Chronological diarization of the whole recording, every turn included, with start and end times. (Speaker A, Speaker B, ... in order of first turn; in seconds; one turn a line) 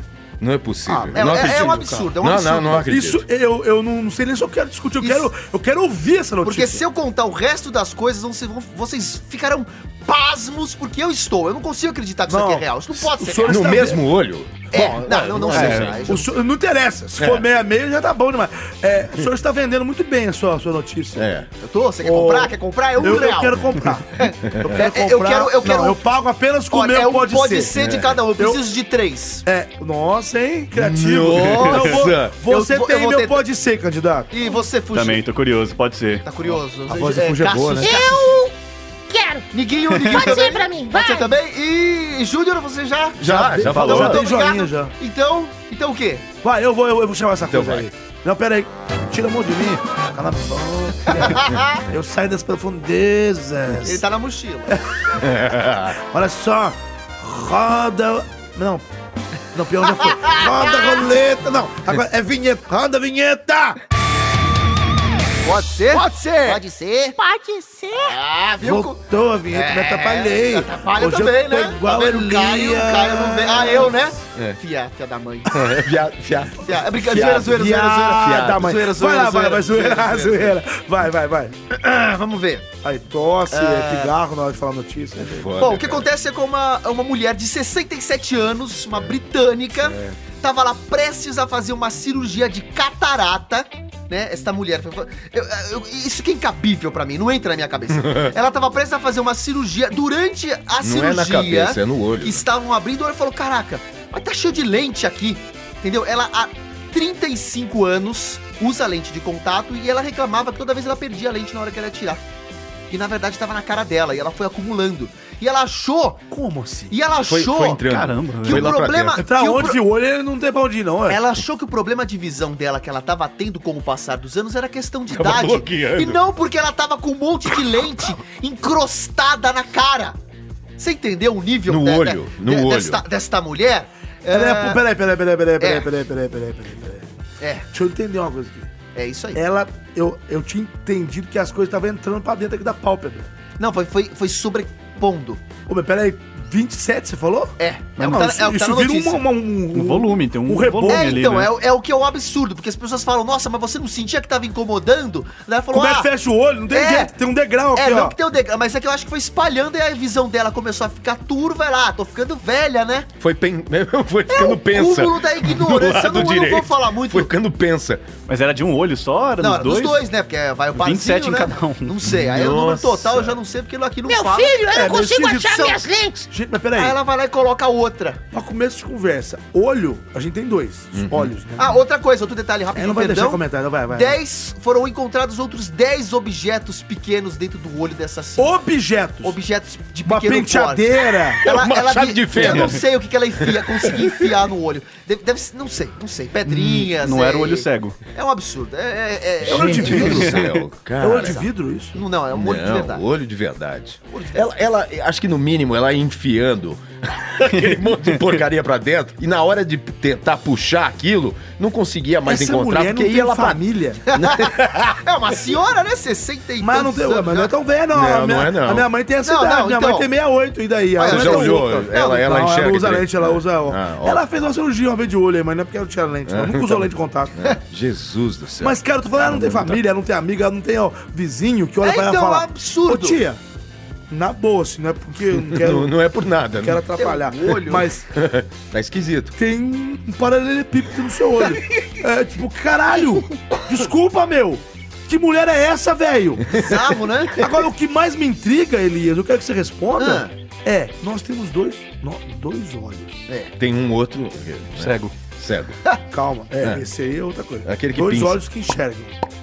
Speaker A: 0.4-3.2
Speaker B: 0.9-2.1
Speaker C: 1.1-2.9
Speaker B: 2.8-6.8
Speaker C: 5.0-5.3
Speaker C: 6.4-13.9
Speaker B: 12.3-14.1
Speaker A: 13.4-16.0
Speaker C: 14.7-16.3
Speaker D: 15.5-15.9
Speaker B: 16.0-21.3
Speaker A: 17.2-17.4
Speaker A: 21.2-21.5
Speaker C: 21.6-26.0
Speaker B: 22.0-27.7
Speaker A: 24.5-24.8
Speaker C: 26.7-29.4
Speaker A: 27.8-28.2
Speaker B: 28.4-28.6
Speaker B: 29.4-34.3
Speaker A: 30.8-32.4
Speaker C: 31.4-33.5
Speaker C: 34.3-35.2
Speaker D: 34.9-36.2
Speaker C: 36.2-38.4
Speaker B: 36.9-38.0
Speaker E: 37.8-38.5
Speaker E: 39.1-41.3
Speaker C: 39.5-46.2
Speaker D: 39.9-40.3
Speaker A: 43.2-44.2
Speaker B: 43.2-44.9
Speaker B: 46.4-54.0
Speaker A: 47.5-47.9
Speaker C: 51.2-51.8
Speaker C: 53.8-54.8
Speaker A: 55.2-56.0
Speaker B: 55.9-58.9
Speaker B: 59.5-63.8
Speaker C: 60.0-61.0
Speaker C: 65.4-67.2
Speaker B: 65.9-66.6
Speaker E: 67.2-68.1
Speaker C: 68.0-75.8
Speaker B: 68.6-74.0
Speaker A: 75.5-77.6
Speaker C: 76.6-80.6
Speaker B: 77.2-81.6
Speaker A: 78.2-78.6
Speaker C: 81.7-82.7
Speaker B: 82.8-85.5
Speaker C: 83.5-84.1
Speaker A: 85.2-86.1
Speaker C: 85.6-112.2
Speaker A: 98.0-98.3
Speaker A: 100.8-102.4
Speaker C: 112.9-116.2
Speaker B: 116.3-117.0
Speaker C: 116.9-117.8
Speaker A: 117.2-119.2
Speaker D: 117.9-118.7
Speaker C: 118.4-119.8
Speaker B: 119.2-121.2
Speaker C: 121.1-130.2
Speaker A: 125.1-126.2
Speaker C: 130.8-134.8
Speaker A: 131.7-133.0
Speaker B: 134.3-137.1
Speaker C: 135.6-135.9
Speaker C: 137.4-137.7
Speaker B: 137.7-138.7
Speaker C: 138.9-139.4
Speaker B: 139.3-143.3
Speaker C: 143.6-145.4
Speaker B: 145.7-151.2
Speaker C: 147.6-149.2
Speaker D: 149.7-151.5
Speaker C: 150.9-156.1
Speaker B: 155.7-158.2
Speaker C: 156.7-157.1
Speaker C: 157.7-163.1
Speaker A: 163.2-168.0
Speaker C: 164.3-167.3
Speaker D: 168.3-170.0
Speaker C: 169.4-175.0
Speaker D: 170.8-171.9
Speaker A: 172.0-173.4
Speaker E: 174.1-176.3
Speaker B: 174.6-177.0
Speaker C: 176.8-178.2
Speaker B: 178.3-181.8
Speaker A: 180.9-181.3
Speaker C: 181.6-188.6
Speaker B: 182.8-184.2
Speaker B: 188.4-189.4
Speaker C: 189.2-200.4
Speaker B: 190.0-191.4
Speaker A: 191.4-192.9
Speaker A: 193.4-194.3
Speaker D: 196.5-198.0
Speaker B: 199.4-200.5
Speaker A: 199.5-201.4
Speaker D: 199.9-200.4
Speaker B: 201.0-202.0
Speaker C: 201.1-203.0
Speaker A: 202.3-213.6
Speaker C: 204.1-204.5
Speaker D: 207.5-208.4
Speaker B: 212.2-214.0
Speaker C: 214.1-217.5
Speaker A: 214.1-215.0
Speaker B: 216.6-227.4
Speaker A: 217.9-218.9
Speaker C: 219.2-220.1
Speaker C: 221.0-222.3
Speaker A: 221.0-224.2
Speaker A: 226.3-229.8
Speaker B: 228.6-233.4
Speaker C: 231.8-233.2
Speaker B: 234.1-235.9
Speaker A: 235.4-236.8
Speaker B: 236.6-238.1
Speaker C: 237.0-237.9
Speaker A: 238.1-239.3
Speaker B: 239.4-246.6
Speaker C: 246.5-247.6
Speaker B: 247.3-253.3
Speaker C: 250.0-250.3
Speaker A: 253.6-255.8
Speaker D: 254.8-255.1
Speaker B: 256.1-259.1
Speaker A: 257.6-258.4